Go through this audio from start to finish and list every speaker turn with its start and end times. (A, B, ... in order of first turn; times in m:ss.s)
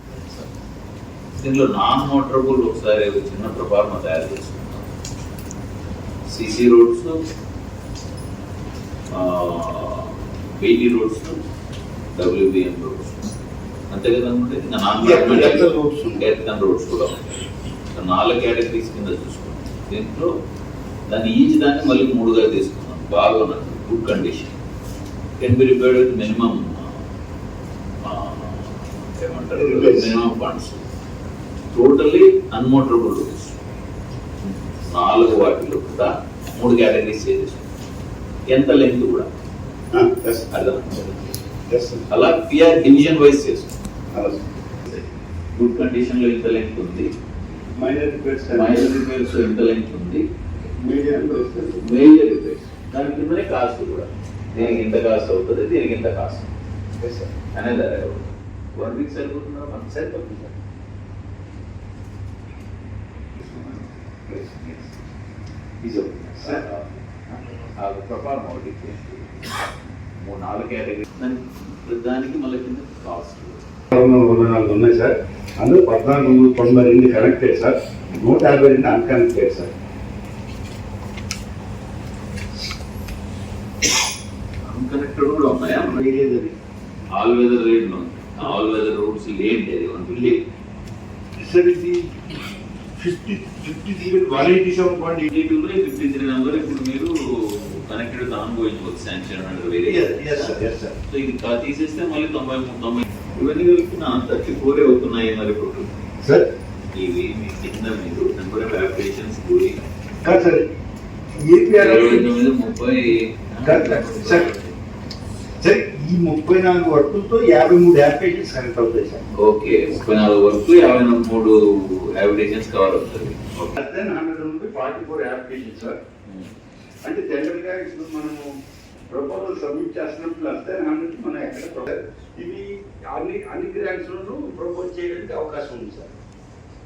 0:00.2-0:00.5 A
0:01.4-0:04.9 A
0:06.3-0:07.2 A
0:09.1-0:11.4 A
0:12.2-0:13.2 A
0:13.9-0:20.3 A
0:15.0-0:16.2 B
0:21.1-0:24.6 A
0:25.4-0:27.0 A
0:28.0-0:30.8 A
0:29.5-0:30.1 B
0:31.7-0:33.5 A
0:34.4-0:37.7 A
0:38.5-0:39.3 A
0:39.9-0:40.5 B
0:40.5-0:41.3 A
0:41.7-0:42.1 B
0:42.1-0:43.7 A
0:44.1-0:44.5 B
0:44.9-0:47.1 A
0:47.8-0:48.9 B
0:48.5-0:50.2 A
0:50.8-0:52.0 B
0:51.8-0:56.5 A
0:54.6-0:54.8 B
0:57.0-0:57.3 B
0:57.5-1:00.6 A
1:03.4-1:03.9 A
1:04.3-1:04.8 B
1:05.8-1:09.5 A
1:06.4-1:06.6 B
1:10.2-1:13.6 A
1:13.9-1:19.7 B
1:24.6-1:26.0 A
1:25.9-1:26.5 B
1:27.2-1:30.4 A
1:31.4-1:32.1 B
1:33.0-1:35.3 B
1:35.3-1:40.6 A
1:39.9-1:41.0 B
1:41.1-1:45.9 A
1:46.2-1:46.5 B
1:46.9-1:49.8 A
1:50.2-1:50.7 B
1:51.4-1:52.4 B
1:51.8-1:54.8 A
1:53.6-1:54.5 B
1:55.6-1:59.3 B
1:59.4-2:03.8 A
2:03.8-2:06.0 B
2:06.3-2:06.5 A
2:07.0-2:08.4 B
2:09.1-2:16.1 B